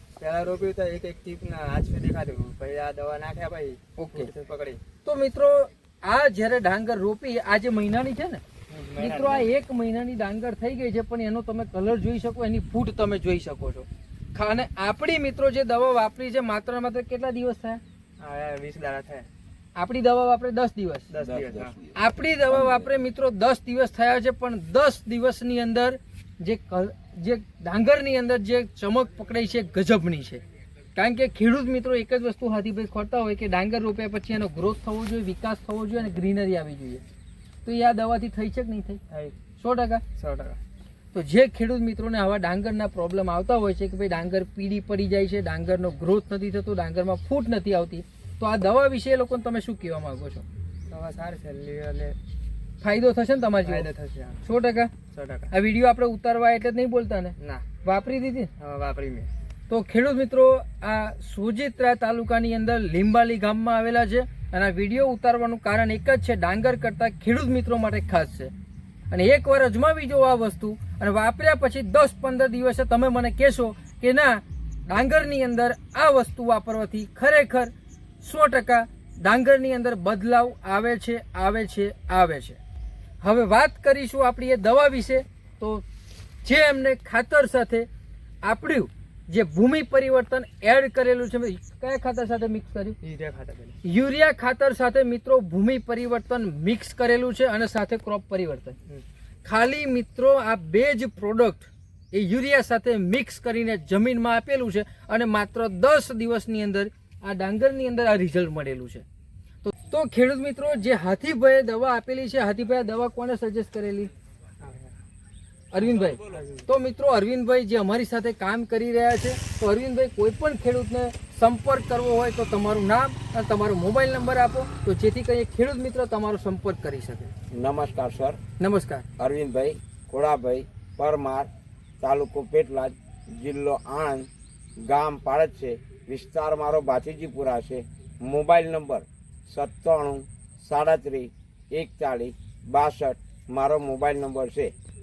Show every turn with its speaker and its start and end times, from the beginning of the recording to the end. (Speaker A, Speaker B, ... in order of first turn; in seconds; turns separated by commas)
Speaker A: 0.2-4.8, Speaker B: 4.0-4.3, Speaker B: 5.0-8.4, Speaker A: 8.7-9.5, Speaker B: 9.0-17.8, Speaker A: 18.2-19.3, Speaker B: 19.8-21.1, Speaker A: 21.1-21.8, Speaker C: 21.2-22.9, Speaker B: 22.0-30.4, Speaker B: 31.0-37.0, Speaker B: 37.6-39.0, Speaker A: 39.1-39.4, Speaker B: 39.6-40.0, Speaker A: 40.1-40.6, Speaker B: 41.1-50.5, Speaker A: 50.9-52.2, Speaker B: 52.8-53.9, Speaker A: 53.6-54.4, Speaker B: 54.4-54.9, Speaker A: 55.1-55.5, Speaker B: 55.5-58.5, Speaker A: 57.4-57.7, Speaker A: 58.6-59.3, Speaker B: 59.7-68.5, Speaker B: 69.1-82.6, Speaker B: 83.2-85.8, Speaker B: 86.4-87.9, Speaker B: 88.4-93.0, Speaker A: 93.0-93.8, Speaker B: 93.8-98.8, Speaker B: 99.5-109.0, Speaker B: 109.6-114.1, Speaker A: 114.6-114.9, Speaker B: 115.7-127.3, Speaker A: 116.2-116.7, Speaker C: 127.5-128.4, Speaker B: 128.6-129.1, Speaker C: 129.2-131.5, Speaker C: 132.0-144.7